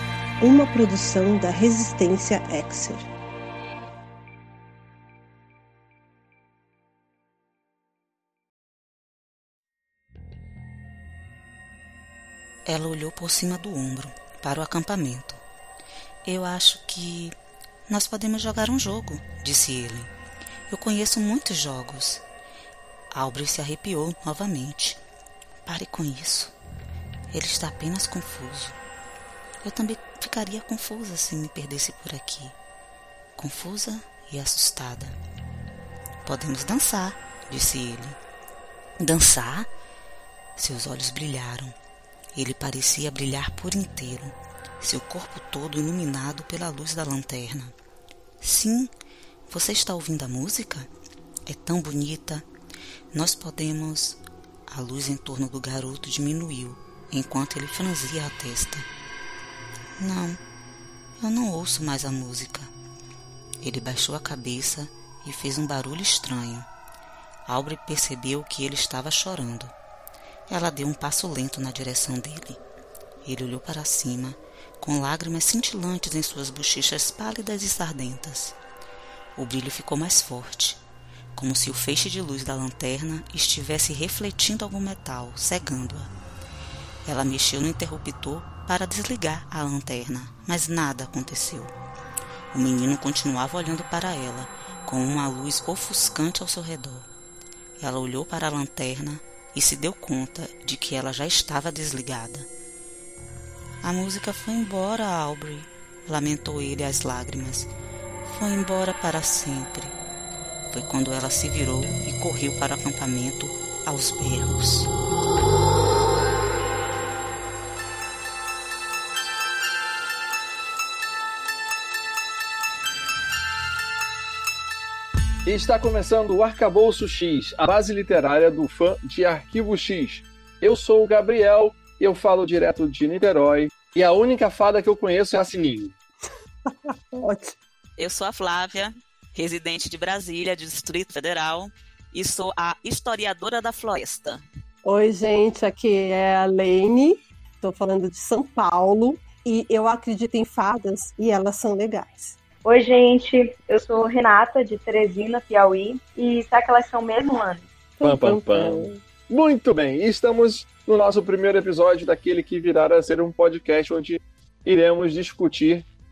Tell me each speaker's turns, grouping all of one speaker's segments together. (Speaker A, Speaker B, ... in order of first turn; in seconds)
Speaker A: 0.4-3.1, 136.9-137.6, 144.8-152.4, 158.0-159.0
Speaker B: 12.6-15.4, 16.2-17.3, 17.9-20.1, 20.7-22.2, 23.1-25.0, 25.6-26.5, 27.3-28.8, 29.6-32.5, 33.4-35.1, 36.2-38.2, 39.0-39.7, 40.6-41.7, 42.3-47.7, 48.4-48.9, 49.5-50.9, 51.5-52.5, 53.1-54.2, 54.7-58.9, 60.0-60.4, 61.2-62.7, 63.6-66.7, 67.5-69.7, 70.5-72.6, 73.2-78.5, 79.3-80.8, 81.3-86.1, 87.0-91.7, 92.5-97.1, 97.8-102.5, 103.8-107.7, 108.2-109.9, 110.7-114.9
Speaker C: 125.4-135.9, 158.0-165.8
Speaker D: 138.0-144.4
Speaker E: 152.6-157.7